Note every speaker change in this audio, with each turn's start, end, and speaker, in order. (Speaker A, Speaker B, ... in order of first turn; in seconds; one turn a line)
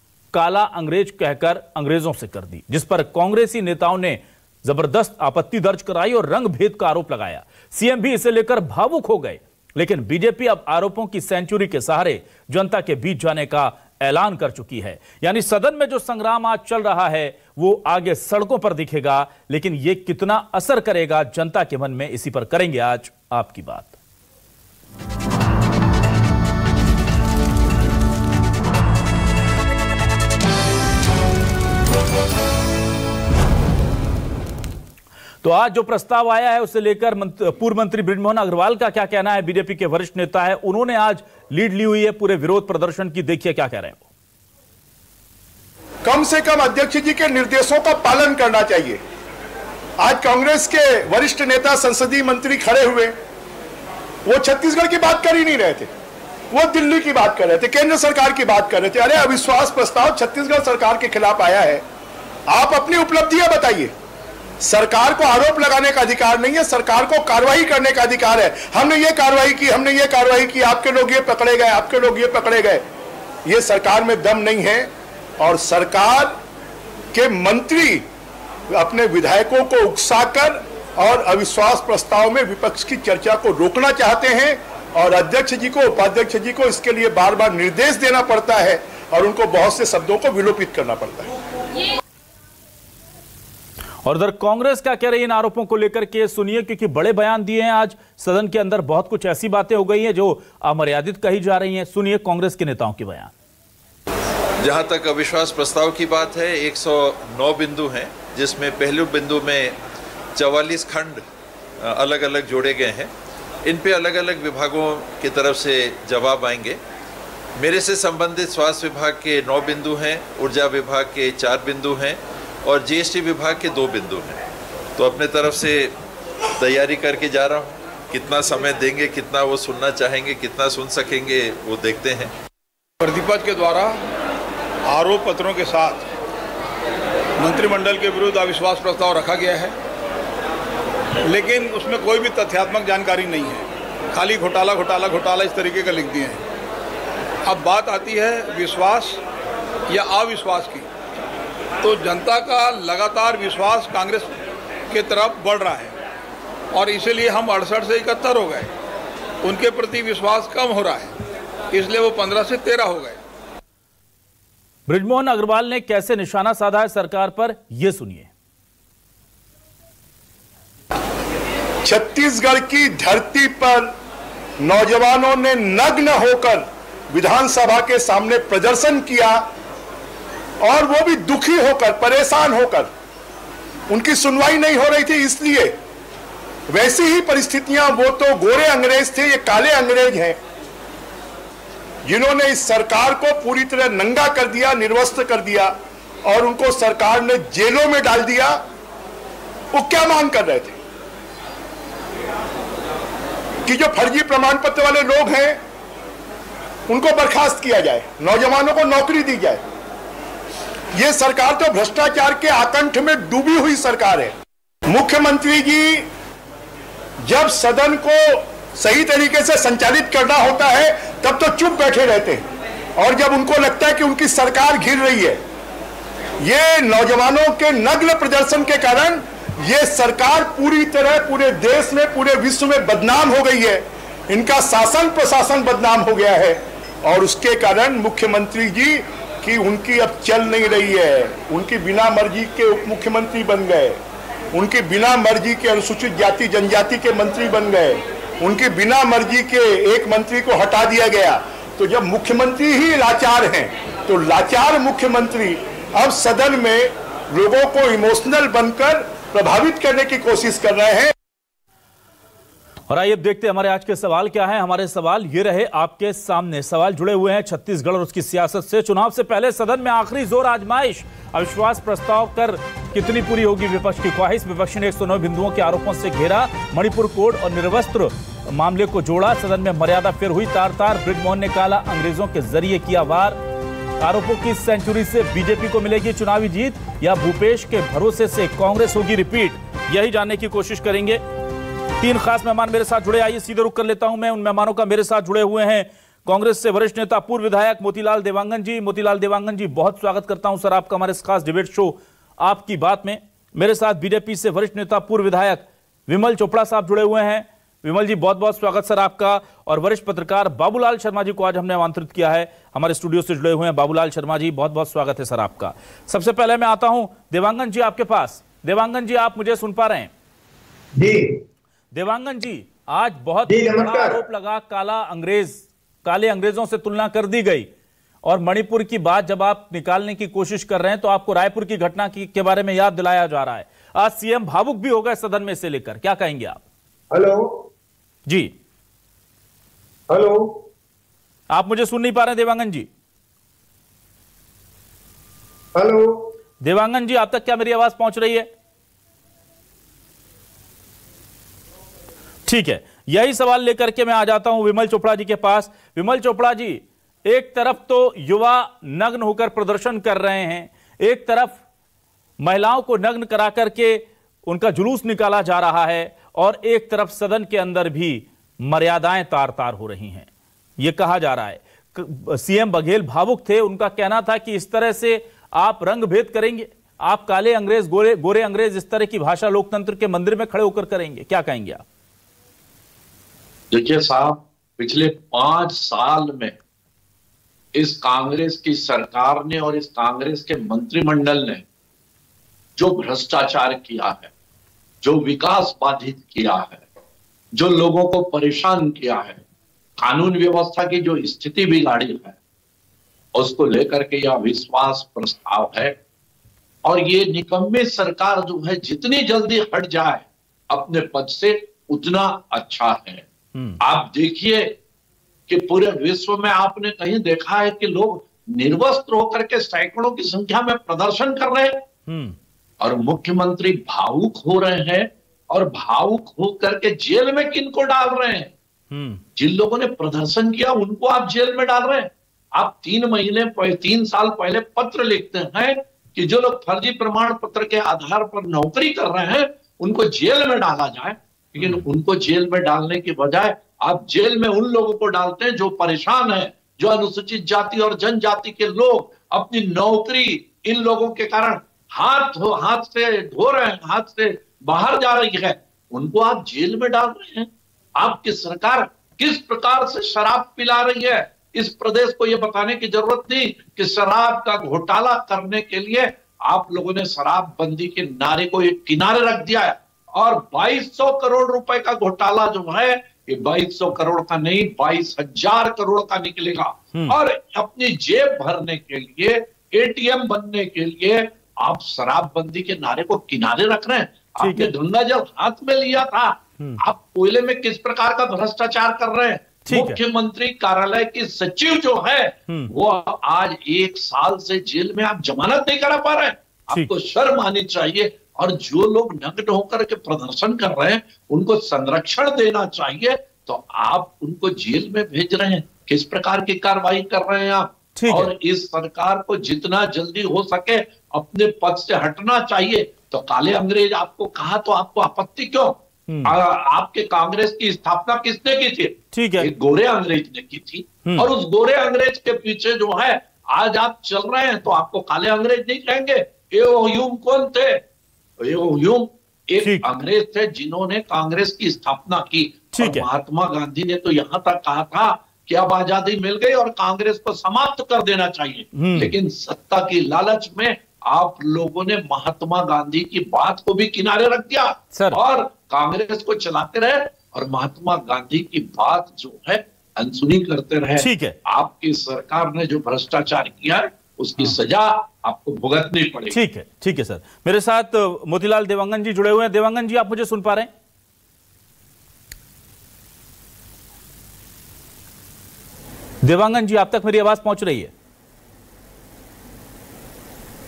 Speaker A: 0.3-23.9
Speaker A: 35.4-44.0
Speaker B: 46.0-49.0
Speaker B: 50.0-53.1
Speaker B: 54.2-55.9
Speaker B: 56.5-61.8
Speaker B: 62.5-63.9
Speaker B: 64.6-72.8
Speaker B: 73.5-76.3
Speaker B: 77.1-78.0
Speaker B: 78.7-91.3
Speaker A: 94.0-103.3
Speaker C: 104.6-109.8
Speaker C: 110.3-111.2
Speaker C: 111.8-113.1
Speaker C: 113.6-116.8
Speaker C: 117.6-124.4
Speaker C: 125.0-125.9
Speaker C: 126.6-132.3
Speaker D: 133.0-134.0
Speaker D: 134.9-136.1
Speaker D: 137.4-139.7
Speaker D: 141.2-146.4
Speaker D: 147.4-149.2
Speaker D: 149.9-150.8
Speaker D: 151.8-154.3
Speaker D: 154.9-156.0
Speaker D: 156.7-158.7
Speaker D: 159.4-161.2
Speaker D: 161.7-163.2
Speaker A: 164.9-168.3
Speaker B: 171.8-173.9
Speaker B: 174.6-179.4
Speaker B: 180.6-182.9
Speaker B: 183.9-185.7
Speaker B: 186.7-190.4
Speaker B: 192.0-198.6
Speaker B: 199.7-200.8
Speaker B: 203.7-205.6
Speaker B: 206.9-209.6
Speaker B: 210.9-214.3
Speaker B: 214.9-216.1
Speaker B: 217.2-222.4
Speaker B: 223.0-225.4
Speaker B: 226.4-244.0
Speaker B: 244.5-261.1
Speaker A: 262.9-283.4
Speaker A: 284.0-291.2
Speaker A: 292.0-320.1
Speaker E: 320.9-321.4
Speaker A: 321.9-327.7
Speaker E: 323.5-324.2
Speaker A: 328.2-336.6
Speaker E: 337.1-337.7
Speaker A: 338.2-338.5
Speaker E: 340.1-340.6
Speaker A: 341.5-342.9
Speaker E: 345.7-346.3
Speaker A: 346.6-348.5
Speaker A: 352.4-361.6
Speaker A: 362.4-370.3
Speaker A: 370.8-381.8
Speaker F: 383.7-386.6
Speaker F: 387.7-391.6
Speaker F: 392.8-394.3
Speaker F: 395.0-396.8
Speaker F: 397.5-399.4
Speaker F: 400.0-402.4
Speaker F: 403.3-405.9
Speaker F: 406.8-413.2
Speaker A: 413.5-413.8
Speaker F: 413.8-414.8
Speaker F: 415.5-421.8
Speaker A: 422.1-422.4
Speaker F: 422.8-428.5
Speaker A: 428.9-429.2
Speaker F: 429.4-527.8
Speaker A: 441.6-441.8
Speaker A: 484.4-484.7
Speaker A: 489.7-490.0
Speaker A: 508.0-508.3
Speaker A: 516.1-516.3
Speaker A: 519.1-519.5
Speaker F: 528.4-556.4
Speaker A: 532.7-533.1
Speaker A: 538.7-539.1
Speaker A: 551.0-551.4
Speaker A: 556.3-560.7
Speaker A: 566.2-567.9